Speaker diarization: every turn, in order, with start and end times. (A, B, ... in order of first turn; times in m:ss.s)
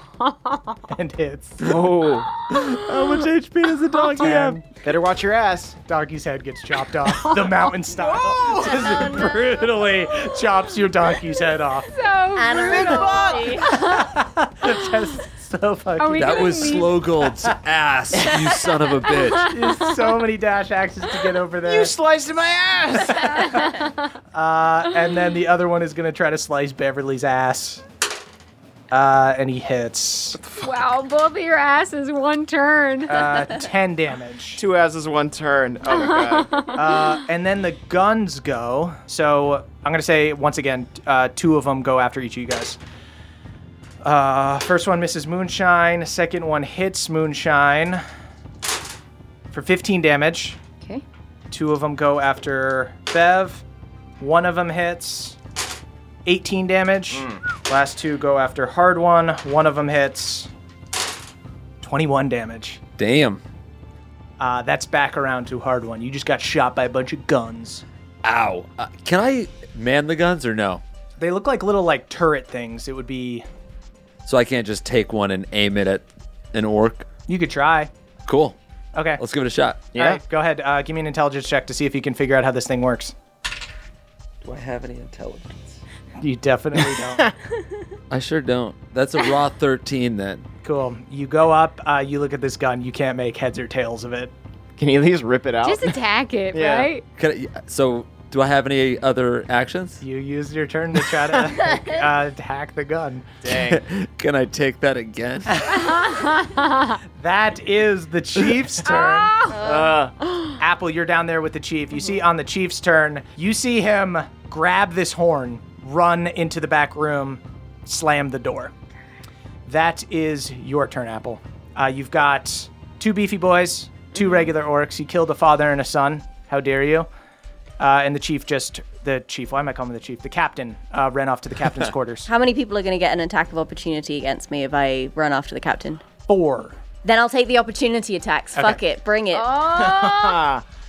0:00.2-0:00.8 A
0:00.9-0:01.7 B
0:01.6-0:02.2 C
0:02.5-0:02.9 A
0:02.5-0:04.6 D
0:04.1-0:04.6 B
0:04.9-0:05.7 C
0:05.8-0:11.9 B
0:07.0-0:07.7 A
0:08.7-0:09.3 A
0:11.9-0:14.1 A
0:12.3-0:13.8 E
0:12.6-0:13.4 C
0:13.7-0:17.5 B
0:16.0-0:17.0 A
0:16.2-0:19.5 D
0:19.1-0:20.0 A
0:19.4-0:21.9 B
0:21.6-0:23.1 C
0:23.1-0:23.9 A
0:23.2-0:23.8 B
0:24.3-0:27.8 B
0:28.9-0:30.4 B
0:30.6-0:33.5 A
0:33.0-0:34.6 B
0:34.6-0:36.4 C
0:36.0-0:37.1 A
0:36.6-0:42.8 B
0:44.0-0:48.0 B
0:49.5-0:50.6 B
0:51.5-0:53.6 B
0:54.2-0:55.4 B
0:56.2-1:00.5 B
1:01.8-1:02.8 B
1:03.0-1:03.4 D
1:04.4-1:07.8 B
1:08.2-1:10.8 D
1:11.2-1:13.4 B
1:14.2-1:17.1 D
1:17.3-1:17.9 B
1:18.3-1:18.6 D
1:18.9-1:19.2 B
1:19.2-1:19.9 D
1:19.9-1:23.1 B
1:20.0-1:20.2 C
1:24.4-1:25.8 D
1:26.2-1:27.3 B
1:28.1-1:30.4 D
1:30.6-1:34.3 B
1:34.8-1:35.8 C
1:35.6-1:37.0 A
1:36.5-1:36.9 C
1:37.2-1:40.0 D
1:40.0-1:43.2 B
1:41.5-1:41.9 E
1:43.5-1:43.8 C
1:43.5-1:45.7 D
1:45.7-1:47.0 A
1:47.2-1:49.4 B
1:48.8-1:49.6 A
1:49.5-1:50.0 E
1:49.7-1:50.1 C
1:50.6-1:58.7 B
1:59.6-2:07.1 B
2:07.8-2:12.3 B
2:12.2-2:16.0 E
2:16.2-2:16.8 B
2:17.0-2:19.5 E
2:18.6-2:18.8 B
2:19.3-2:20.4 A
2:20.0-2:20.6 C